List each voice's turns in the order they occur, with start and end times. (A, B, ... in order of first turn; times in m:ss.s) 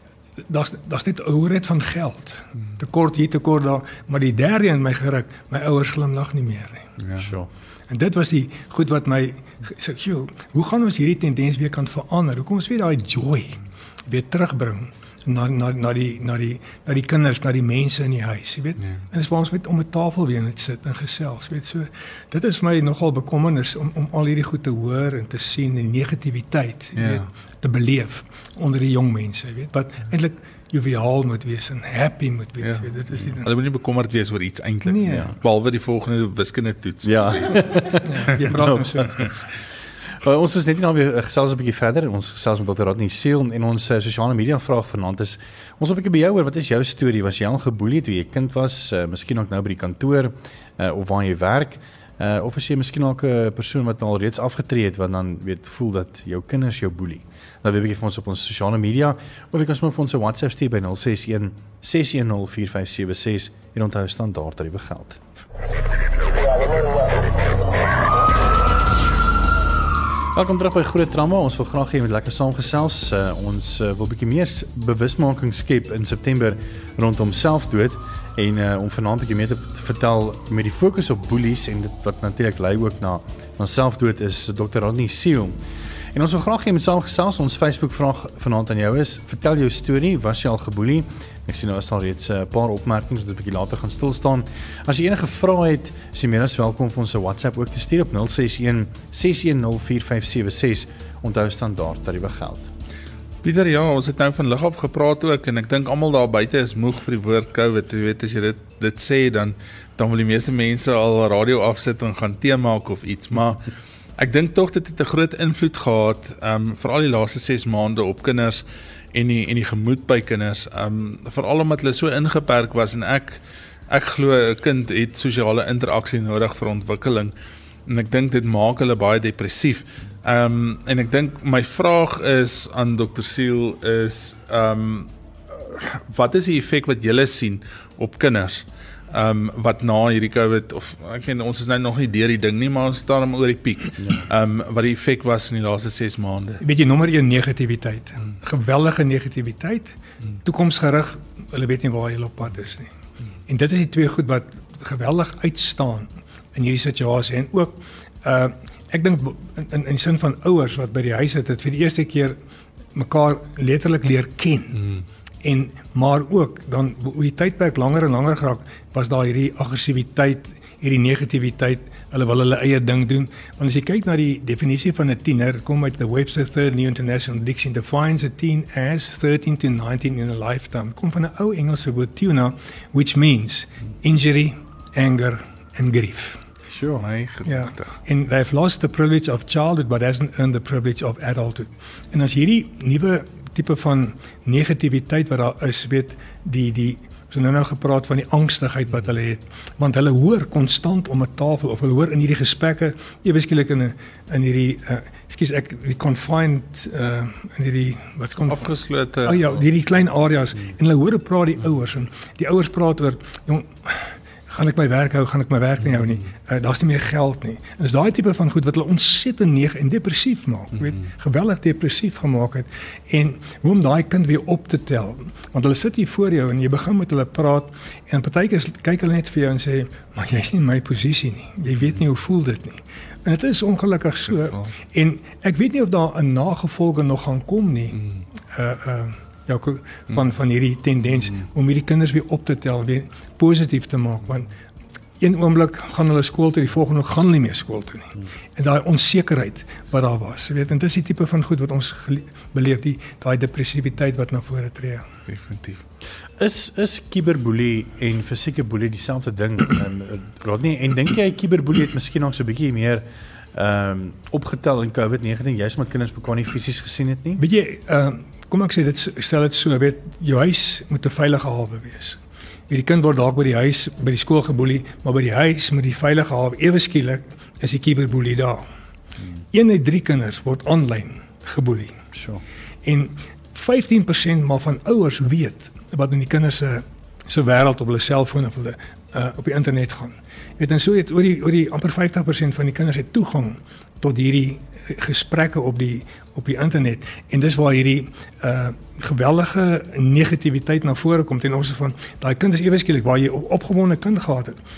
0:00.5-0:06.8 A
0:07.0-0:07.3 B
0:07.2-0:07.5 C
0:07.9-0:33.5 A
0:27.0-0:27.2 B
0:32.6-0:37.8 B
0:34.8-0:35.3 A
0:37.0-0:39.3 C
0:38.0-0:39.3 A
0:40.2-1:05.3 C
1:10.3-1:25.5 C
1:26.1-1:42.7 C
1:43.4-1:53.6 B
1:54.2-2:03.4 B
2:03.9-2:07.3 B
2:07.9-2:26.6 B
2:26.6-2:32.9 A
2:33.5-2:42.4 A
2:42.9-2:44.8 A
2:45.4-3:06.4 A
3:06.7-3:07.0 C
3:07.0-3:07.9 B
3:07.4-4:04.5 A
3:28.4-3:29.4 B
4:05.2-4:15.0 A
4:15.3-4:15.8 B
4:16.4-4:23.0 C
4:23.5-4:27.4 C
4:27.4-4:38.6 A
4:39.5-4:42.0 A
4:42.1-4:42.4 C
4:42.8-5:04.6 A